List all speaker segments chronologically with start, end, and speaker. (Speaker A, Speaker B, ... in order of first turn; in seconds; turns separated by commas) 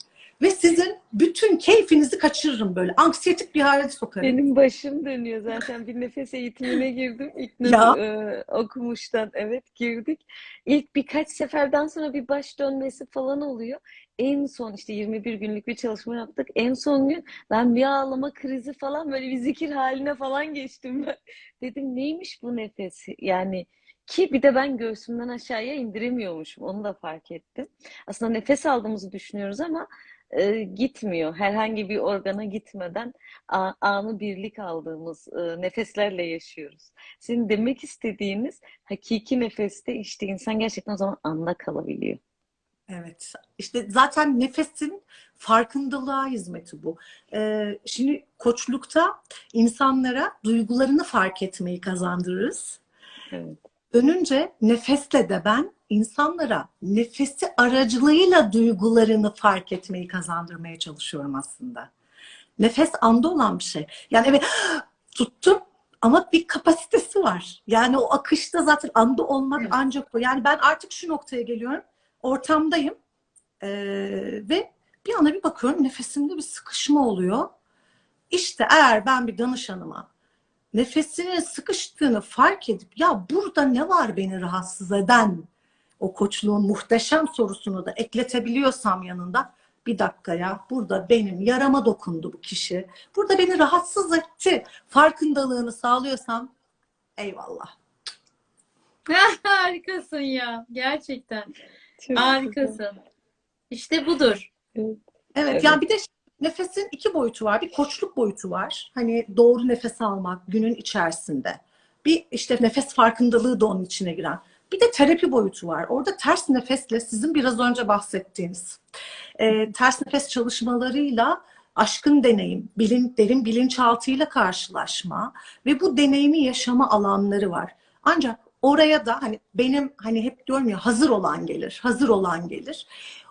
Speaker A: 0.4-4.4, Speaker B: 4.2-42.2, Speaker A: 7.6-8.0, Speaker A: 42.9-52.8, Speaker B: 53.3-53.6, Speaker A: 53.9-61.9, Speaker A: 62.6-73.0, Speaker A: 73.6-77.5, Speaker A: 78.3-80.1, Speaker A: 80.7-85.5, Speaker A: 86.0-96.5, Speaker A: 97.2-97.7, Speaker C: 99.1-101.5, Speaker B: 102.0-102.8, Speaker C: 102.1-103.0, Speaker C: 103.7-104.5, Speaker B: 104.7-105.0, Speaker A: 105.3-118.8, Speaker B: 105.5-105.8, Speaker A: 119.4-132.8